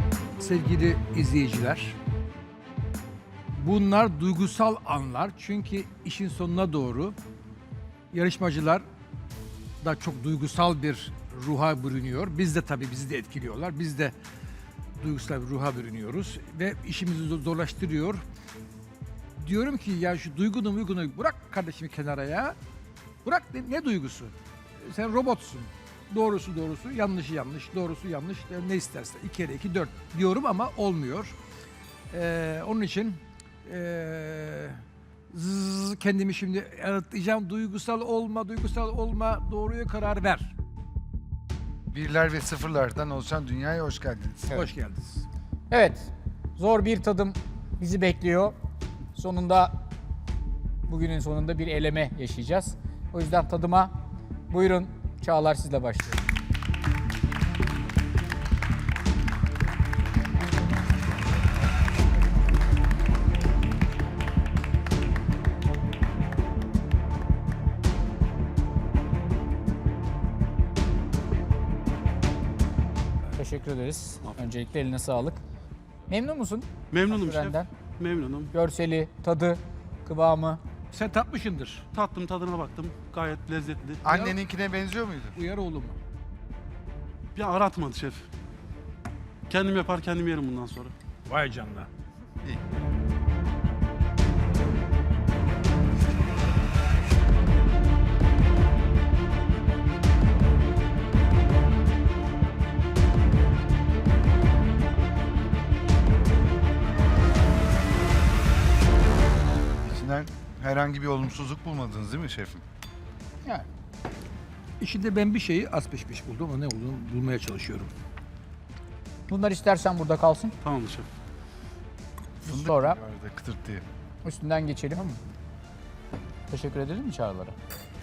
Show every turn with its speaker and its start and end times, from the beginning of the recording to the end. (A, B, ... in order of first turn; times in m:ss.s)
0:00.4-0:02.0 A
0:03.6-0:07.2 A
0:08.1-0:08.8 A
0:09.8-0:14.1 A
0:15.0-0:18.2 A
0:19.4-0:22.6 A
0:23.2-0:31.4 A
0:32.1-0:40.5 A
0:41.9-0:44.5 B
0:44.5-0:45.3 A
0:45.7-0:48.5 C
0:49.2-0:49.7 C
0:50.9-0:53.9 C
0:54.5-0:56.3 C
1:13.4-1:15.4 C
1:16.1-1:17.7 C
1:16.9-1:18.5 D
1:18.5-1:20.6 C
1:20.9-1:21.9 A
1:21.9-1:24.0 D
1:24.0-1:25.4 B
1:24.1-1:24.4 A
1:25.4-1:26.0 A
1:27.4-1:28.2 D
1:29.5-1:30.9 D
1:31.3-1:31.9 A
1:49.8-1:52.6 B
1:54.8-1:57.9 A
1:59.3-2:00.6 C
2:00.6-2:01.1 D
2:02.4-2:03.0 C
2:02.5-2:03.8 B
2:04.2-2:05.1 C
2:06.5-2:07.6 C